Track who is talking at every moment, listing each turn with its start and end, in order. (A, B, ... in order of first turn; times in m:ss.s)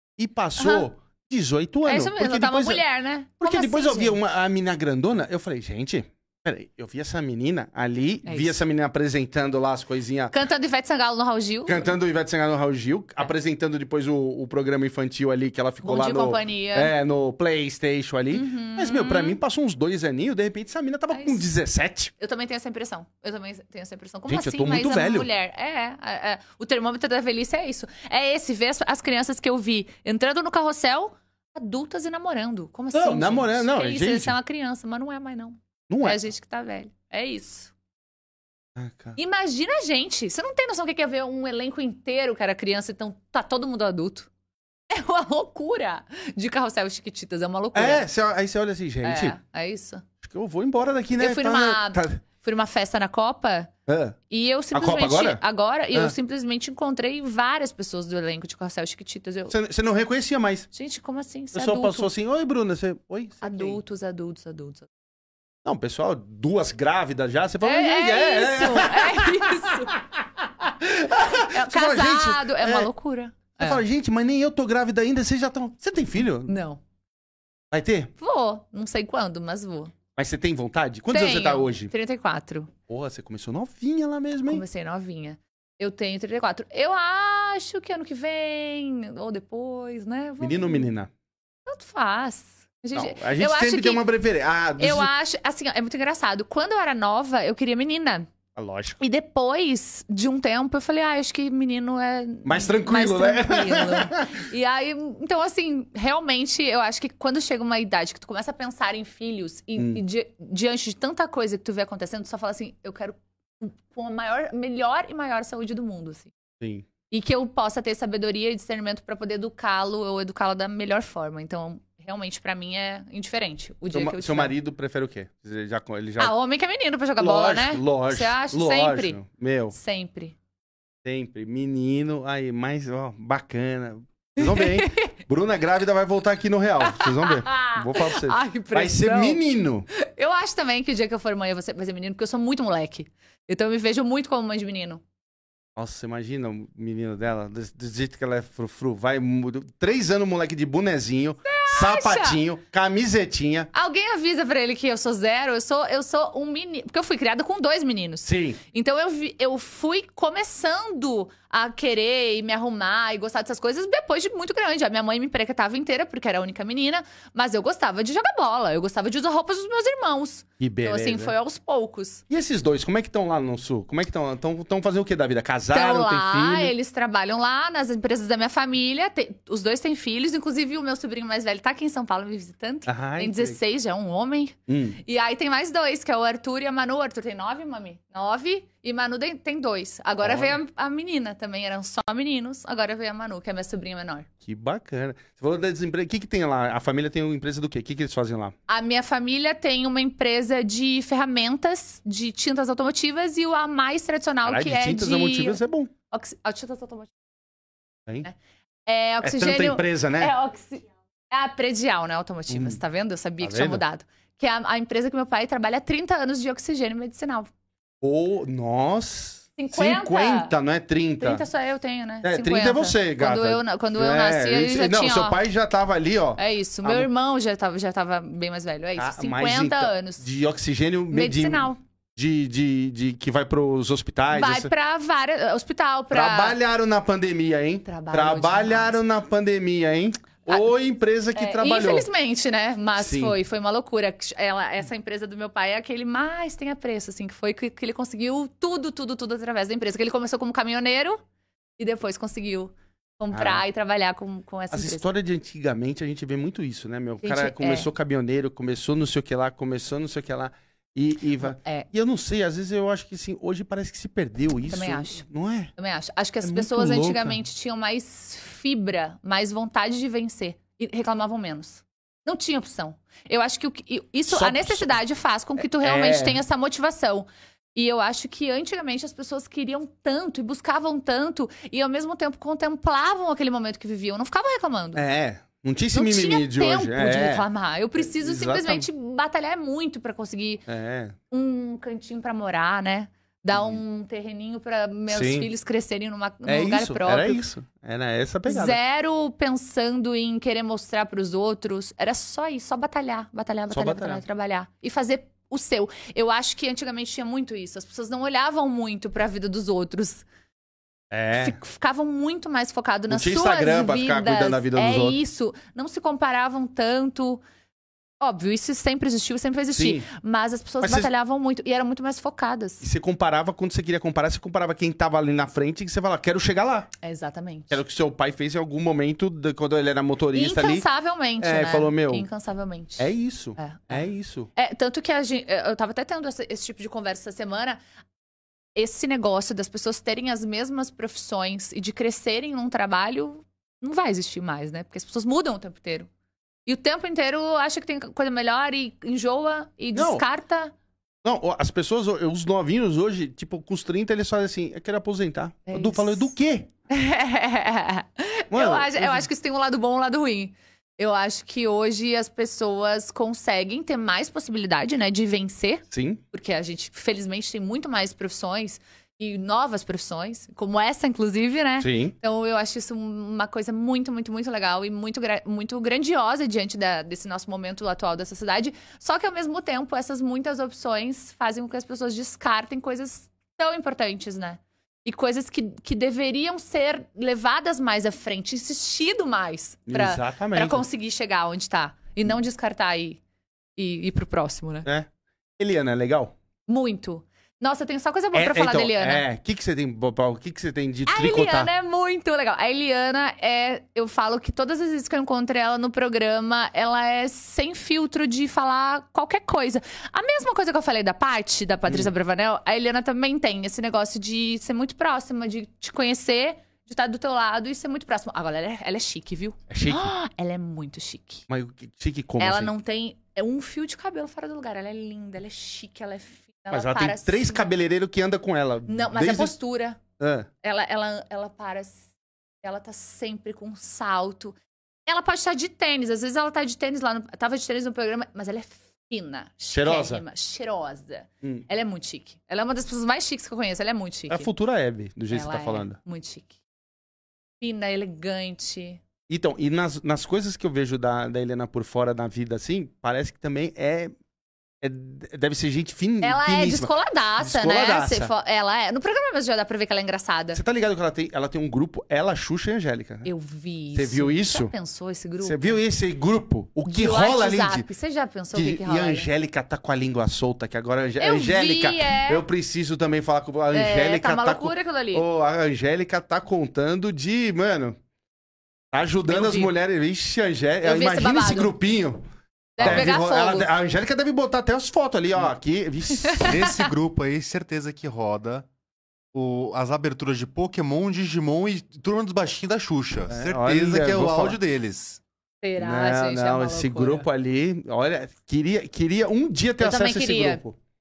0:00.2-0:02.8 A
0:00.6-0:00.9 B
0:01.8-0:04.2 B
0:03.4-0:10.3 A
0:08.2-0:08.6 B
0:10.3-0:12.0 B
0:11.6-0:22.1 A
0:15.8-0:16.9 B
0:18.3-0:19.4 B
0:21.1-0:21.4 B
0:22.2-0:37.7 B
0:24.3-0:25.3 A
0:32.9-0:34.3 A
0:35.9-0:36.2 A
0:38.8-0:39.2 A
0:39.2-0:44.3 B
0:44.9-0:48.0 B
0:47.7-0:49.4 A
0:49.0-0:50.0 B
0:50.2-0:52.2 A
0:51.2-0:53.7 B
0:53.9-0:54.2 A
0:54.3-0:59.5 B
0:54.7-0:55.4 A
0:59.5-1:00.7 A
1:00.7-1:02.1 B
1:01.5-1:03.8 A
1:03.4-1:04.9 B
1:05.6-1:12.9 A
1:07.6-1:09.9 B
1:11.5-1:13.8 B
1:13.6-1:16.5 A
1:16.5-1:16.8 B
1:17.7-1:18.1 A
1:18.2-1:19.9 B
1:20.2-1:21.9 A
1:21.1-1:22.7 B
1:22.9-1:24.6 A
1:24.5-1:30.9 B
1:30.4-1:31.1 A
1:31.6-1:34.0 B
1:32.9-1:35.1 A
1:34.8-1:38.3 B
1:38.5-1:39.0 A
1:39.0-1:56.3 B
1:42.4-1:44.4 A
1:49.8-1:50.0 A
1:56.6-1:56.9 A
1:57.1-2:04.5 B
2:03.9-2:06.3 A
2:06.2-2:09.2 B
2:07.2-2:09.7 A
2:09.7-2:10.4 B
2:11.0-2:19.9 A
2:14.4-2:15.1 B
2:16.8-2:19.4 B
2:20.0-2:25.0 B
2:25.8-2:33.7 A
2:31.4-2:32.4 B
2:33.7-2:52.2 B
2:38.2-2:38.6 A
2:50.6-2:51.3 A
2:52.3-2:56.7 A
2:55.7-3:14.3 B
3:02.8-3:03.6 A
3:04.7-3:05.0 A
3:10.2-3:10.6 A
3:14.4-3:18.5 A
3:18.7-3:25.6 B
3:24.4-3:25.9 A
3:26.1-3:27.1 B
3:28.8-3:37.5 B
3:29.2-3:30.3 A
3:32.5-3:32.8 A
3:33.4-3:33.8 A
3:38.0-3:41.4 A
3:39.6-3:40.5 B
3:41.2-3:45.4 B
3:42.2-3:47.1 A
3:46.4-3:50.2 B
3:49.0-3:54.7 A
3:51.1-3:51.8 B
3:54.3-3:56.6 B
3:56.1-4:02.1 A
3:57.8-3:59.0 B
4:01.3-4:11.2 B
4:03.0-4:03.4 A
4:11.8-4:15.1 B
4:13.3-4:13.6 A
4:14.7-4:25.7 A
4:17.2-4:17.9 B
4:21.4-4:21.9 B
4:24.7-4:25.2 B
4:25.8-4:45.0 B
4:26.4-4:27.4 A
4:34.3-4:35.0 A
4:35.6-4:36.4 A
4:44.9-4:48.9 A
4:45.9-4:50.6 B
4:50.7-4:51.2 A
4:51.3-4:57.4 B
4:53.5-4:53.8 A
4:55.1-4:55.5 A
4:56.4-4:58.8 A
4:58.4-5:10.2 B
5:03.7-5:04.2 A
5:11.1-5:11.6 A
5:11.3-5:17.4 B
5:13.1-5:15.2 A
5:18.2-5:22.8 B
5:19.7-5:20.1 A
5:20.8-5:21.1 A
5:22.8-5:26.9 A
5:27.0-5:27.8 B
5:27.7-5:30.9 A
5:30.3-5:37.8 B
5:31.4-5:32.3 A
5:33.0-5:34.5 A
5:38.8-5:46.1 B
5:46.6-5:50.7 B
5:49.9-5:50.2 A
5:51.2-5:56.7 A
5:55.7-5:56.3 B
5:56.9-6:33.2 B
5:58.5-5:59.3 A
6:05.9-6:06.2 A
6:11.8-6:12.1 A
6:29.9-6:30.8 A
6:33.8-6:34.9 B
6:34.8-6:36.3 A
6:36.7-6:39.2 B
6:38.3-6:41.7 A
6:41.1-7:01.4 B
6:59.7-7:00.1 A
7:01.5-7:02.7 A
7:02.4-7:07.7 B
7:06.7-7:09.5 A
7:08.9-7:10.0 B
7:10.2-7:10.5 A
7:10.6-7:12.1 B
7:12.6-7:14.6 B
7:15.1-7:24.5 B
7:19.7-7:20.2 A
7:24.3-7:26.0 A
7:25.3-7:26.6 B
7:27.6-7:29.0 B
7:29.3-7:34.1 A
7:34.8-7:38.3 A
7:36.2-7:40.6 B
7:40.5-7:43.3 A
7:43.2-7:45.8 B
7:43.9-7:44.7 A
7:45.4-7:47.9 A
7:46.8-7:49.3 B
7:48.5-7:58.0 A
7:51.2-7:52.4 B
7:53.7-7:55.2 B
7:58.9-8:02.2 A
7:59.3-7:59.7 B
8:00.8-8:01.7 B
8:02.8-8:03.7 B
8:02.8-8:06.5 A
8:06.2-8:06.7 B
8:06.4-8:08.6 C
8:09.3-8:15.2 C
8:13.3-8:14.6 A
8:15.6-8:17.3 B
8:15.8-8:20.8 A
8:19.8-8:20.6 B